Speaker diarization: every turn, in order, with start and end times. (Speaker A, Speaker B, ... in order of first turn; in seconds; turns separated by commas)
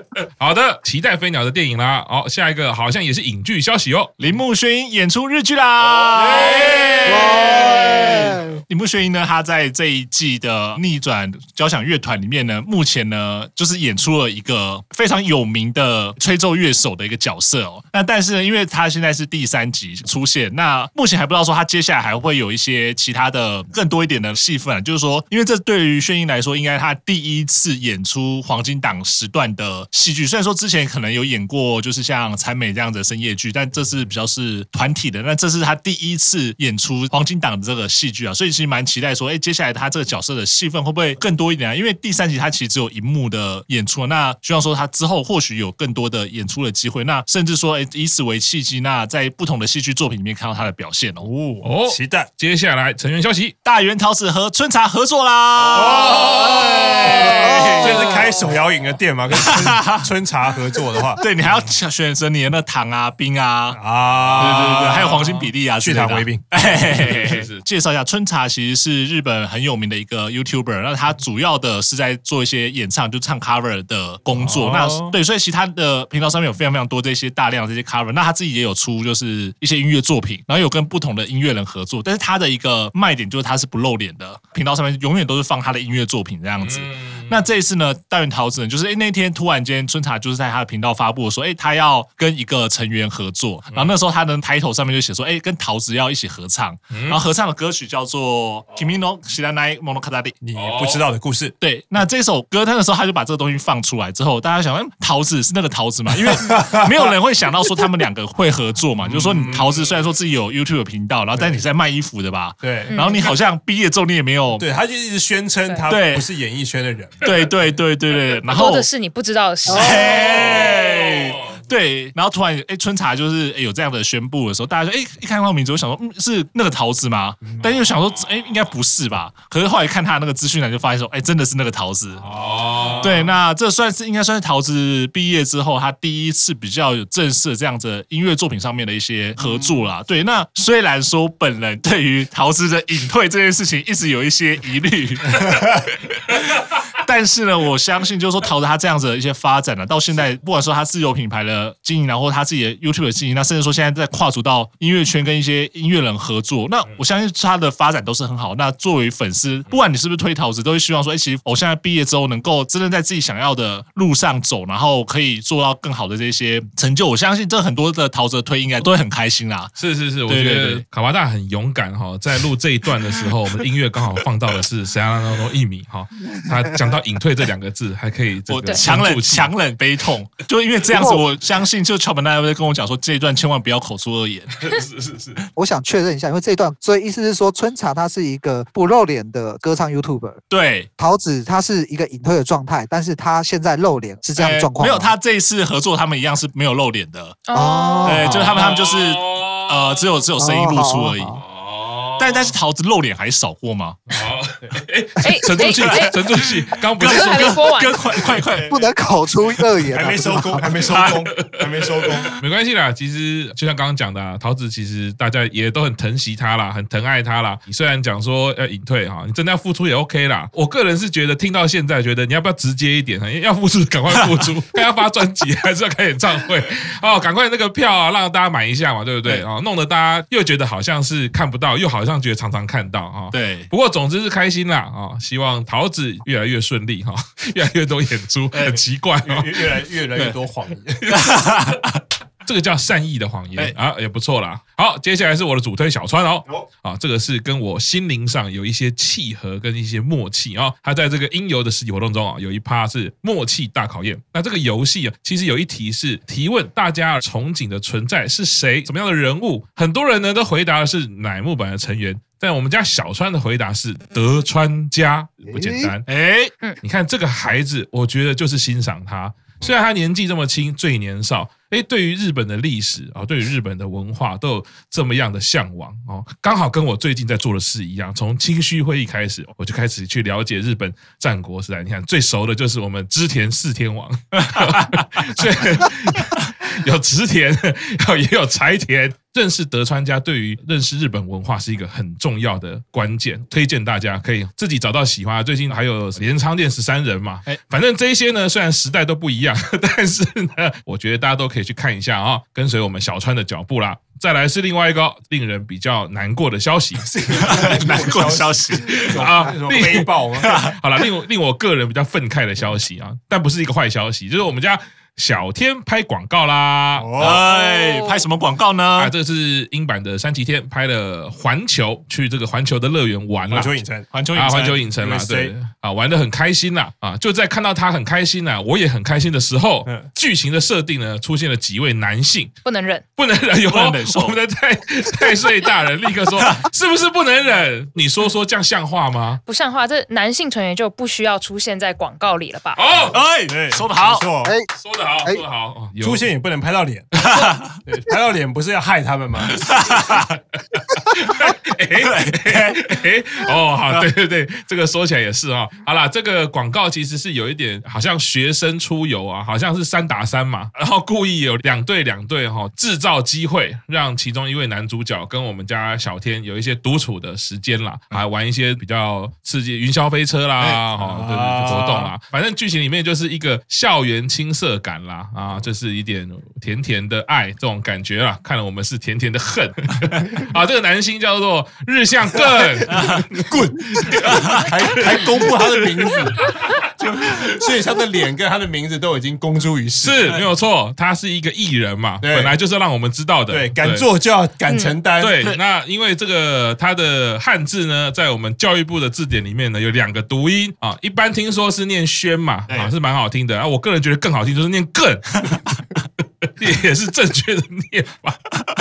Speaker A: 0.4-4.1, Speaker B: 4.2-51.3, Speaker A: 5.9-6.7, Speaker C: 6.2-6.9, Speaker D: 7.0-8.6, Speaker C: 51.2-52.3, Speaker A: 51.6-53.5, Speaker B: 53.6-58.3, Speaker A: 55.7-58.3, Speaker C: 57.7-61.2, Speaker B: 59.3-60.1, Speaker B: 61.2-63.8, Speaker C: 63.7-65.2, Speaker A: 64.2-65.5, Speaker B: 64.3-100.4, Speaker C: 65.7-66.7, Speaker A: 66.7-67.6, Speaker C: 74.3-75.2, Speaker A: 86.6-87.5, Speaker A: 93.7-94.0, Speaker A: 96.9-97.2, Speaker C: 100.4-101.5, Speaker A: 100.5-101.0, Speaker B: 101.6-114.7, Speaker C: 106.2-107.1, Speaker C: 109.0-109.7, Speaker C: 112.6-112.9, Speaker E: 112.9-113.3, Speaker C: 114.6-117.3, Speaker B: 115.8-116.3, Speaker B: 117.2-118.9, Speaker E: 118.5-120.3, Speaker B: 119.7-132.2, Speaker A: 120.2-121.7, Speaker A: 127.4-128.7, Speaker A: 132.2-133.3, Speaker B: 133.0-145.5, Speaker C: 139.4-139.7, Speaker B: 146.2-169.7, Speaker A: 169.8-179.5, Speaker B: 170.3-170.8, Speaker B: 178.5-184.5, Speaker D: 180.9-181.2, Speaker A: 184.5-185.4, Speaker D: 185.6-190.4, Speaker B: 190.5-190.9, Speaker D: 191.0-195.2, Speaker B: 194.3-197.4, Speaker E: 197.5-198.1, Speaker D: 197.5-198.5, Speaker B: 198.0-201.4, Speaker A: 198.2-200.1, Speaker D: 200.4-201.4, Speaker A: 201.4-202.5, Speaker B: 202.2-204.0, Speaker A: 204.1-207.6, Speaker E: 205.2-206.1, Speaker B: 205.5-208.8, Speaker E: 207.0-208.1, Speaker C: 208.4-208.7, Speaker D: 208.7-210.7, Speaker C: 209.9-212.3, Speaker A: 210.9-239.8, Speaker B: 233.3-233.7, Speaker B: 238.5-238.8, Speaker C: 239.2-241.1, Speaker B: 241.1-242.0, Speaker A: 242.4-266.1, Speaker D: 265.5-265.9, Speaker B: 266.1-266.5, Speaker A: 266.8-307.1, Speaker C: 307.0-310.6, Speaker B: 307.3-309.2, Speaker A: 308.9-317.2, Speaker B: 310.4-310.7, Speaker C: 316.9-317.4, Speaker B: 317.2-319.1, Speaker E: 317.4-318.2, Speaker A: 318.9-323.7, Speaker C: 323.5-324.1, Speaker B: 324.1-324.9, Speaker A: 324.3-332.5, Speaker C: 324.9-325.5, Speaker E: 332.6-333.0, Speaker A: 333.2-339.4, Speaker B: 333.6-334.4, Speaker E: 339.4-342.8, Speaker A: 342.7-343.2, Speaker B: 343.1-344.3, Speaker C: 343.4-344.5, Speaker A: 344.8-346.2, Speaker C: 346.0-347.3, Speaker B: 347.2-347.8, Speaker C: 347.8-349.6, Speaker A: 349.5-385.8, Speaker B: 349.6-350.3, Speaker B: 352.0-352.8, Speaker B: 370.6-370.9, Speaker C: 371.0-372.1, Speaker C: 383.5-386.4, Speaker A: 386.4-386.8, Speaker B: 387.0-387.6, Speaker C: 387.4-390.2, Speaker A: 390.0-394.1, Speaker C: 392.2-392.5, Speaker C: 393.5-395.4, Speaker E: 394.7-395.0, Speaker A: 395.1-405.7, Speaker A: 406.6-408.6